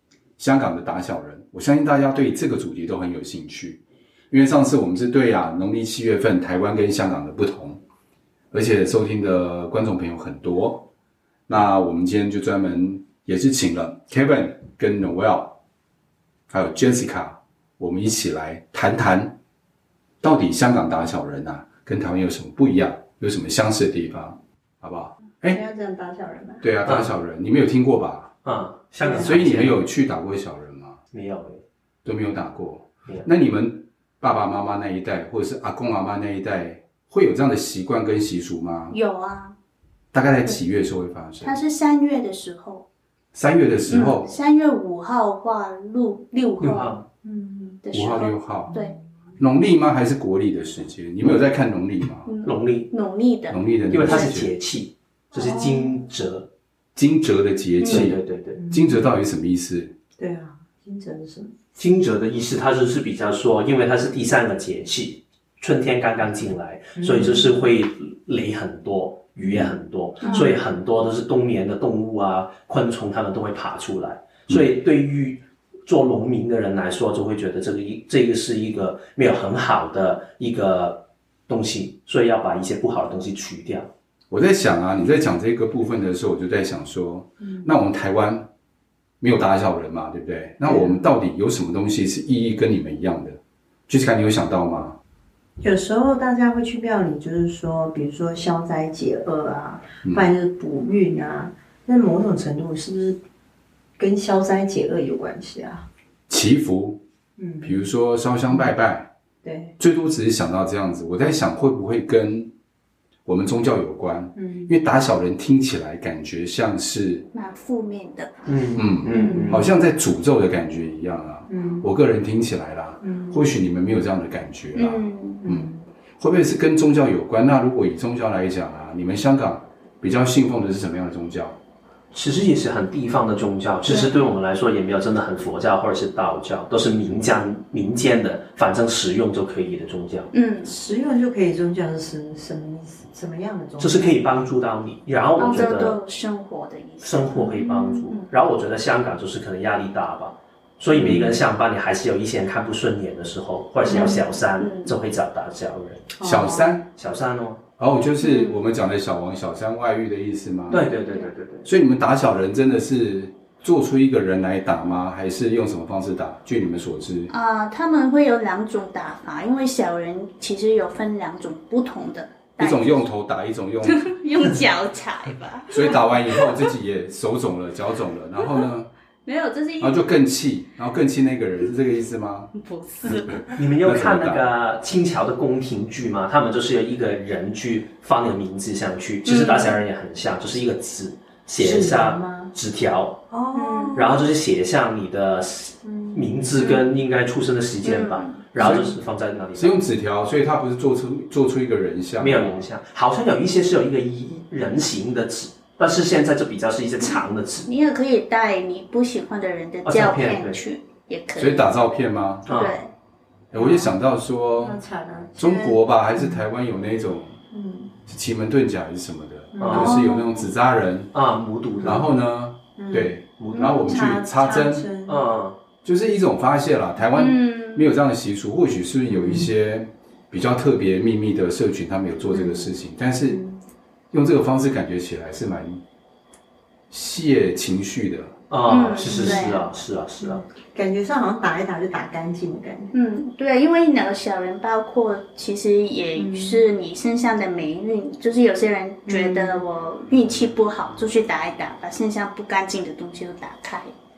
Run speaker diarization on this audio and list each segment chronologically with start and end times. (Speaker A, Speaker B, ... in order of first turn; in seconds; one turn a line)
Speaker A: 0.4-7.8
Speaker A: 8.5-10.9
Speaker A: 11.5-15.6
Speaker A: 16.5-19.3
Speaker A: 20.2-25.6
Speaker B: 25.5-26.6
Speaker A: 26.6-28.3
Speaker C: 26.8-27.1
Speaker C: 28.4-29.8
Speaker B: 29.0-29.4
Speaker A: 29.1-31.0
Speaker C: 31.1-31.6
Speaker A: 32.0-39.0
Speaker D: 38.9-39.5
Speaker A: 40.1-41.6
Speaker D: 41.4-42.8
Speaker A: 43.3-44.3
Speaker D: 43.9-47.0
Speaker C: 46.6-47.0
Speaker B: 47.2-47.8
Speaker D: 47.8-49.0
Speaker A: 47.9-48.7
Speaker B: 48.7-49.0
Speaker A: 49.4-52.3
Speaker D: 52.3-53.6
Speaker C: 52.4-52.9
Speaker A: 53.5-54.5
Speaker C: 53.9-56.5
Speaker B: 55.3-56.0
Speaker A: 57.0-59.9
Speaker C: 57.8-58.6
Speaker B: 57.8-59.1
Speaker B: 60.2-61.6
Speaker C: 61.8-83.9
Speaker B: 67.0-67.5
Speaker D: 70.2-70.6
Speaker B: 70.2-70.6
Speaker A: 84.3-88.5
Speaker B: 87.4-87.7
Speaker A: 89.2-95.0
Speaker B: 90.6-91.1
Speaker B: 95.6-103.2
Speaker B: 104.0-105.8
Speaker A: 106.3-107.0
Speaker B: 107.4-107.8
Speaker A: 107.6-109.1
Speaker B: 109.4-109.7
Speaker A: 109.8-112.5
Speaker A: 113.2-117.3
Speaker B: 114.4-114.7
Speaker D: 117.3-118.3
Speaker C: 118.5-119.7
Speaker A: 118.7-131.6
Speaker B: 119.1-119.7
Speaker B: 121.5-121.9
Speaker B: 123.0-123.5
Speaker D: 124.7-125.4
Speaker B: 125.4-125.9
Speaker C: 132.1-140.3
Speaker D: 133.8-134.2
Speaker D: 140.3-140.7
Speaker B: 140.6-144.2
Speaker C: 143.8-146.0
Speaker D: 145.4-148.3
Speaker C: 147.0-156.1
Speaker B: 147.4-148.0
Speaker B: 150.9-151.3
Speaker B: 153.8-154.2
Speaker D: 153.8-154.9
Speaker B: 156.2-156.7
Speaker A: 156.2-156.9
Speaker C: 156.9-157.6
Speaker A: 157.8-160.9
Speaker D: 158.2-158.6
Speaker C: 160.7-161.7
Speaker A: 161.6-167.3
Speaker D: 167.3-173.1
Speaker A: 172.6-174.1
Speaker D: 173.8-176.4
Speaker A: 175.7-178.9
Speaker D: 179.2-180.0
Speaker A: 179.8-182.5
Speaker D: 182.6-183.4
Speaker C: 183.6-193.3
Speaker A: 183.8-184.4
Speaker D: 189.2-189.7
Speaker B: 191.6-192.5
Speaker B: 193.3-194.2
Speaker D: 193.5-193.9
Speaker C: 193.9-199.8
Speaker B: 195.8-196.4
Speaker D: 196.6-196.8
Speaker D: 197.8-198.5
Speaker A: 198.6-198.9
Speaker A: 199.5-202.7
Speaker C: 202.2-207.7
Speaker D: 207.6-211.7
Speaker C: 209.8-210.6
Speaker A: 211.4-212.5
Speaker C: 212.4-212.8
Speaker D: 212.5-212.9
Speaker A: 213.5-214.8
Speaker B: 213.5-213.9
Speaker B: 214.6-216.4
Speaker A: 215.4-217.4
Speaker B: 217.5-217.9
Speaker A: 218.1-221.1
Speaker B: 219.5-220.0
Speaker C: 219.6-220.0
Speaker D: 219.7-220.5
Speaker C: 221.1-222.1
Speaker B: 221.7-222.1
Speaker A: 221.8-224.9
Speaker B: 222.8-225.3
Speaker C: 223.4-223.7
Speaker D: 223.6-224.0
Speaker C: 225.0-225.6
Speaker A: 225.8-233.4
Speaker D: 227.1-227.9
Speaker B: 229.2-229.5
Speaker B: 232.3-232.7
Speaker B: 233.3-233.6
Speaker A: 234.1-235.8
Speaker A: 236.9-238.3
Speaker C: 238.5-240.4
Speaker D: 238.7-239.7
Speaker B: 239.1-239.5
Speaker B: 240.2-242.9
Speaker D: 242.9-253.9
Speaker B: 246.2-246.6
Speaker B: 249.1-249.6